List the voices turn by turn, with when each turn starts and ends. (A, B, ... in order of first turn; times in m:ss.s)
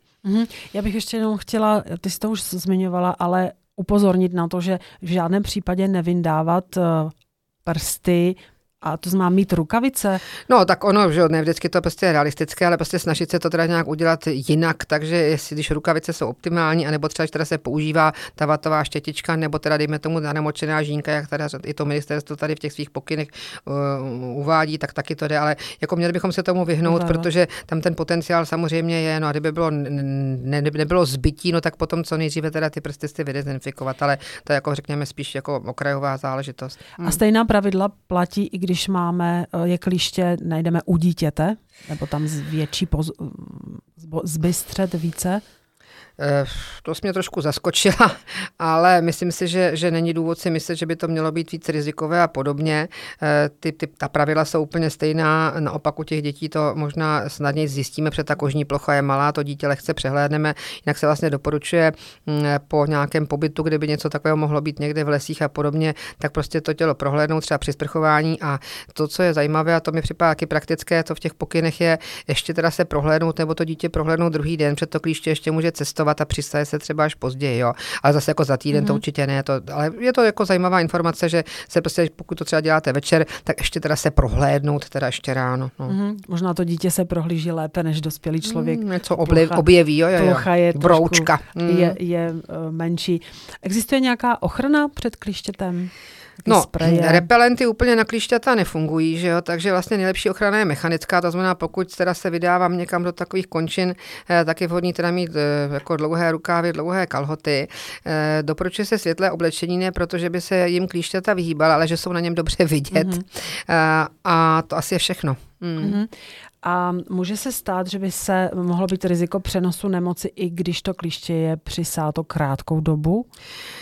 0:00.2-0:07.1 A
0:07.6-0:10.2 A
0:10.5-0:37.2 B
0:26.9-0:27.3 A
0:37.0-0:45.4 A
0:46.2-1:26.0 B
1:18.7-1:19.0 A
1:25.9-1:29.6 A
1:28.4-1:32.0 B
1:30.2-1:37.3 A
1:36.5-1:56.0 B
1:52.9-1:53.2 A
1:55.8-1:56.1 A
1:56.6-2:03.3 A